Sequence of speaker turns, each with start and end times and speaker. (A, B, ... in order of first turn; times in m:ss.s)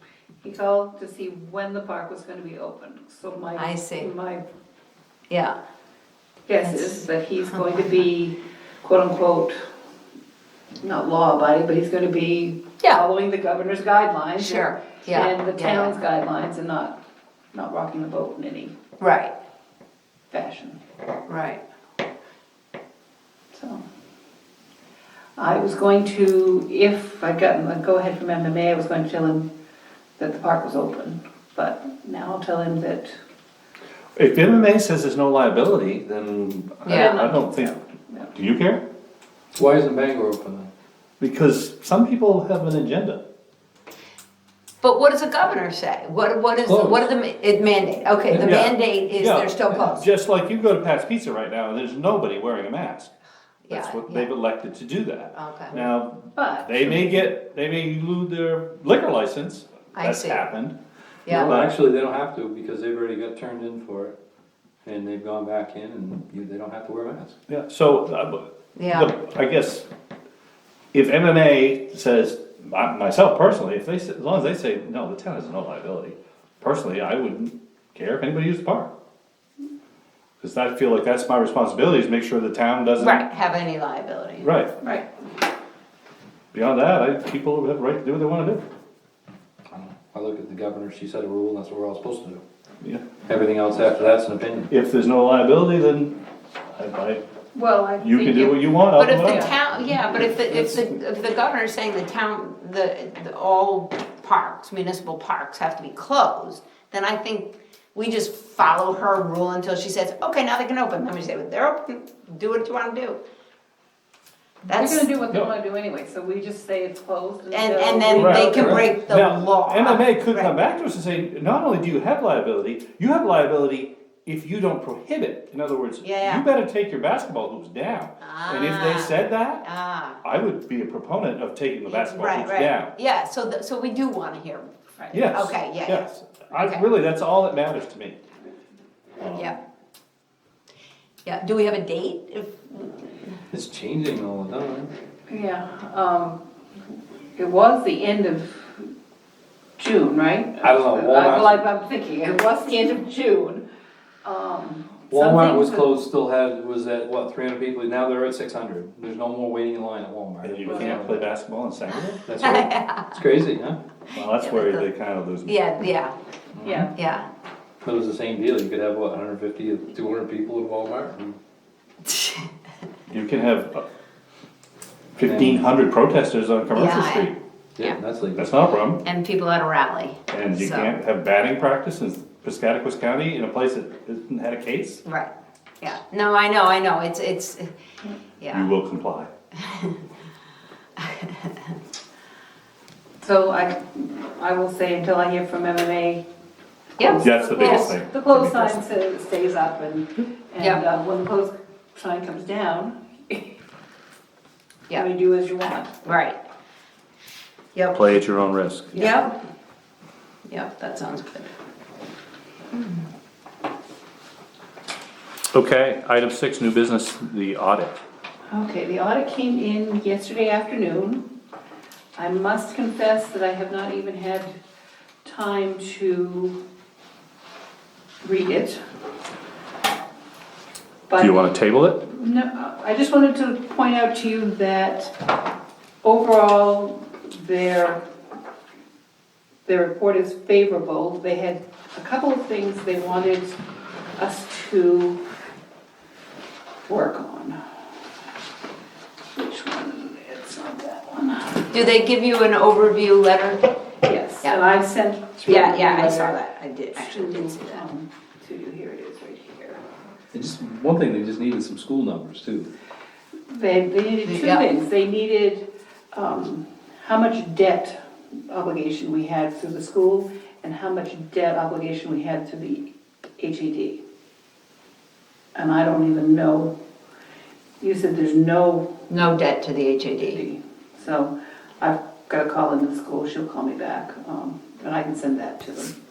0:00.4-0:04.4 A
0:03.6-0:04.1 B
0:05.3-0:05.5 B
0:06.5-0:09.5 A
0:06.6-0:07.8 B
0:10.8-0:17.0 A
0:14.4-0:16.0 B
0:17.5-0:18.7 A
0:19.0-0:19.3 B
0:20.3-0:20.8 A
0:21.3-0:21.6 B
0:23.5-0:23.8 A
0:25.4-0:29.5 A
0:30.2-0:33.2 A
0:34.2-0:37.7 C
0:36.9-0:37.2 B
0:36.9-0:38.3 A
0:38.3-0:38.8 C
0:39.6-0:40.7 D
0:41.2-0:43.2 C
0:44.8-0:50.0 B
0:46.6-0:47.1 D
0:48.3-0:48.7 D
0:48.3-0:53.1 C
0:53.6-0:54.3 B
0:53.7-1:00.8 C
0:55.3-0:55.8 B
0:56.4-0:57.1 A
0:59.9-1:00.4 B
1:01.2-1:01.5 B
1:01.3-1:04.2 D
1:01.3-1:01.8 C
1:04.8-1:07.4 D
1:07.5-1:09.9 C
1:08.8-1:09.1 B
1:10.9-1:18.9 C
1:20.4-1:23.2 C
1:23.0-1:24.5 B
1:24.4-1:24.7 C
1:26.5-1:28.6 C
1:29.7-1:32.4 D
1:33.2-1:34.7 D
1:34.7-1:36.2 C
1:36.7-1:37.2 C
1:37.5-1:39.6 A
1:38.0-1:39.5 C
1:38.9-1:53.2 B
1:40.4-1:40.9 C
1:54.6-1:58.9 A
1:54.7-1:55.1 B
1:57.5-2:00.5 B
1:58.1-2:09.6 C
2:06.0-2:06.4 B
2:08.2-2:10.2 B
2:10.2-2:12.9 C
2:11.9-2:14.7 B
2:15.0-2:15.2 A
2:15.1-2:18.2 C
2:15.3-2:16.8 B
2:19.2-2:19.6 C
2:21.2-2:23.0 B
2:23.5-2:24.9 D
2:25.3-2:26.4 A
2:27.4-2:28.9 A
2:29.8-2:33.6 A
2:30.6-2:31.6 D
2:34.2-2:35.9 A
2:35.1-2:41.3 D
2:40.4-2:42.2 C
2:40.6-2:40.9 A
2:42.2-2:43.8 D
2:42.4-2:43.1 B
2:44.1-2:45.6 C
2:44.4-2:44.9 B
2:45.4-2:46.1 B
2:46.5-2:46.9 D
2:46.6-2:46.9 A
2:46.9-2:47.3 B
2:47.8-2:51.4 D
2:52.1-2:52.5 B
2:53.1-2:53.8 C
2:55.2-2:57.4 C
2:55.2-2:55.6 D
2:56.7-2:58.0 B
2:57.8-2:58.5 D
2:58.4-2:59.0 C
2:59.0-3:00.9 B
3:00.3-3:05.0 C
3:05.0-3:07.7 B
3:08.4-3:08.7 B
3:08.5-3:09.3 C
3:09.6-3:10.0 B
3:11.0-3:11.5 B
3:13.2-3:16.2 A
3:17.0-3:17.9 B
3:17.0-3:23.5 A
3:17.2-3:18.8 C
3:24.9-3:26.0 A
3:26.0-3:26.4 B
3:27.9-3:29.0 C
3:28.9-3:29.3 A
3:28.9-3:29.3 B
3:30.5-3:31.5 B
3:35.5-3:38.0 C
3:38.5-3:41.3 A
3:42.2-3:44.5 A
3:45.2-3:46.6 A
3:48.2-3:48.8 A
3:51.1-3:55.3 A
3:51.2-3:52.0 C
3:56.0-3:58.0 A
3:59.6-4:03.6 A
4:04.2-4:05.2 A
4:06.9-4:07.6 A
4:09.3-4:11.7 A
4:11.7-4:13.6 B
4:14.0-4:16.4 A
4:15.4-4:17.8 B
4:16.9-4:19.8 A
4:20.3-4:22.7 D
4:23.5-4:34.0 A
4:24.2-4:24.7 B
4:35.5-4:36.7 A
4:37.8-4:39.0 A
4:39.1-4:40.4 B
4:40.2-4:45.9 A